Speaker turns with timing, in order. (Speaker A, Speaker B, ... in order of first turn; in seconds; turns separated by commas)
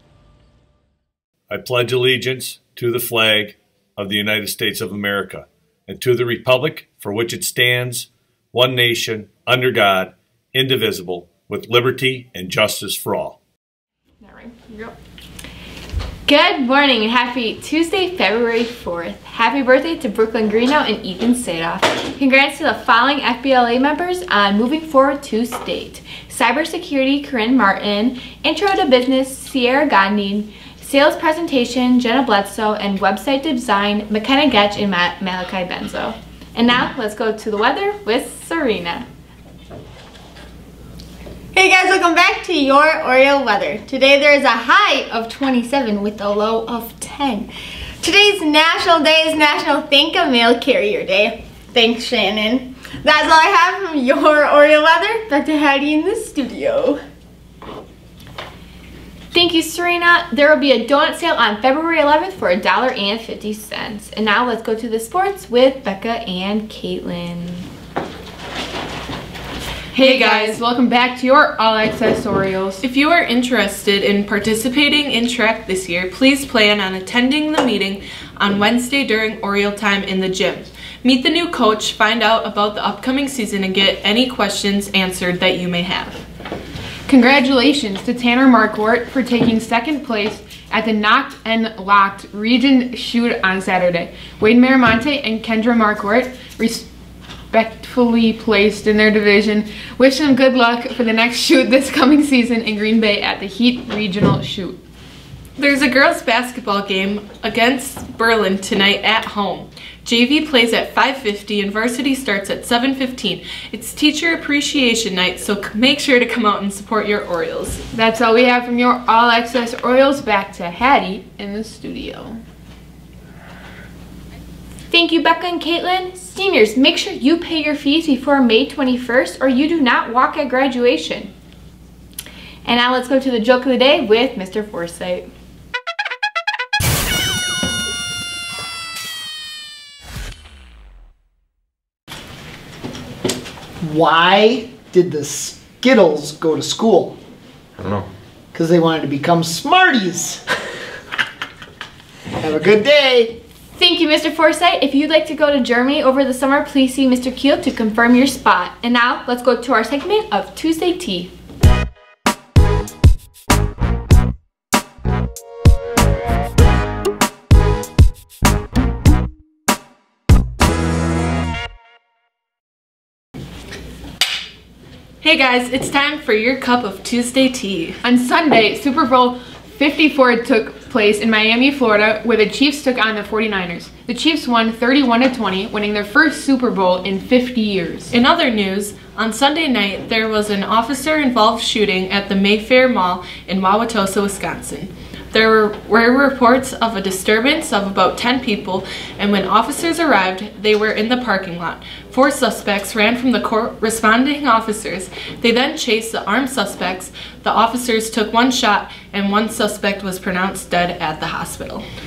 Speaker A: 1.5-13.4, Speaker B: 14.2-14.9, Speaker B: 16.3-39.0, Speaker C: 41.5-57.0, Speaker B: 59.3-67.7, Speaker D: 69.9-72.8, Speaker E: 70.0-70.6, Speaker B: 70.1-70.4, Speaker E: 72.8-86.2, Speaker D: 87.1-96.9, Speaker D: 97.5-104.8, Speaker E: 105.6-117.8, Speaker D: 117.9-122.4, Speaker B: 124.9-131.3, Speaker B: 132.6-135.3, Speaker F: 143.8-147.2, Speaker F: 148.5-150.4, Speaker F: 152.4-153.3, Speaker B: 153.7-161.3, Speaker E: 175.2-178.0, Speaker D: 178.0-188.1, Speaker E: 188.1-211.8